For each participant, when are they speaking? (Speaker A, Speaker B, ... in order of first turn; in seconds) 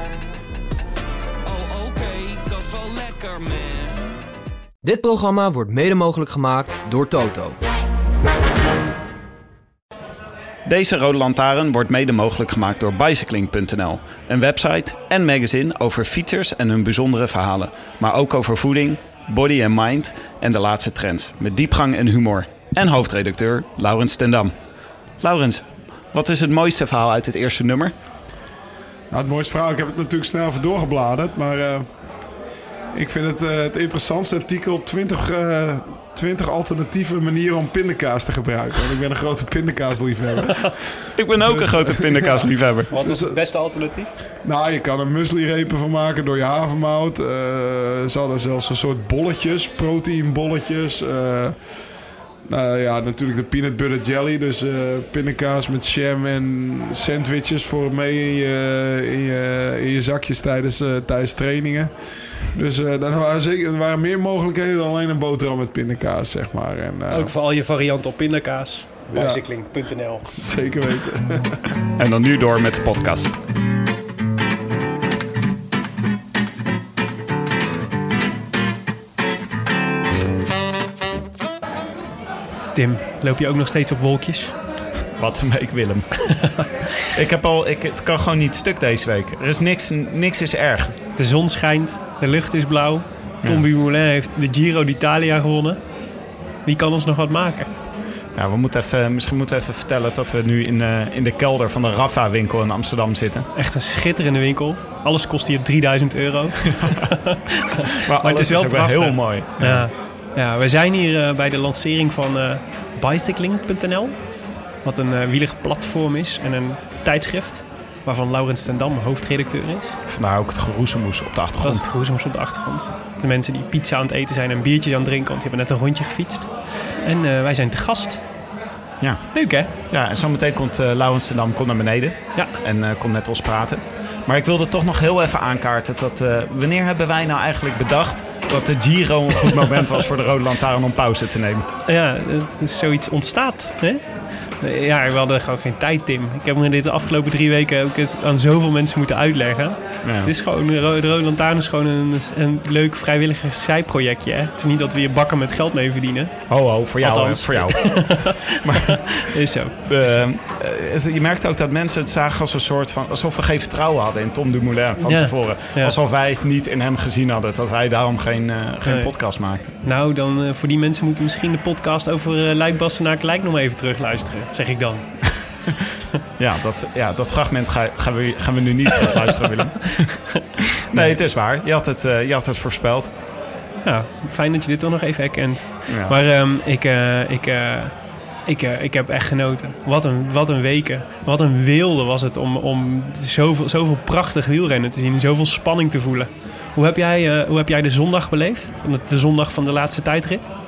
Speaker A: 1.4-4.1
Speaker B: 4.8-7.5
Speaker C: 10.6-24.5, 25.2-27.9, 41.1-42.9, 72.0-73.3, 85.1-91.0, 98.3-103.5, 108.0-109.9, 120.0-121.8, 129.0-141.7, 150.0-150.3, 156.5-169.7, 176.4-183.1, 185.9-186.4
Speaker D: 29.1-32.3, 32.9-43.9, 44.4-51.9, 52.5-67.3, 69.1-71.6
Speaker E: 42.9-44.1, 67.1-70.3, 82.7-84.5, 86.4-86.7, 91.2-95.8, 96.7-97.7, 103.5-114.3, 114.8-120.0, 121.6-128.2, 129.3-129.7, 141.9-160.3, 165.0-165.9, 168.8-175.3, 180.9-181.2, 183.8-200.5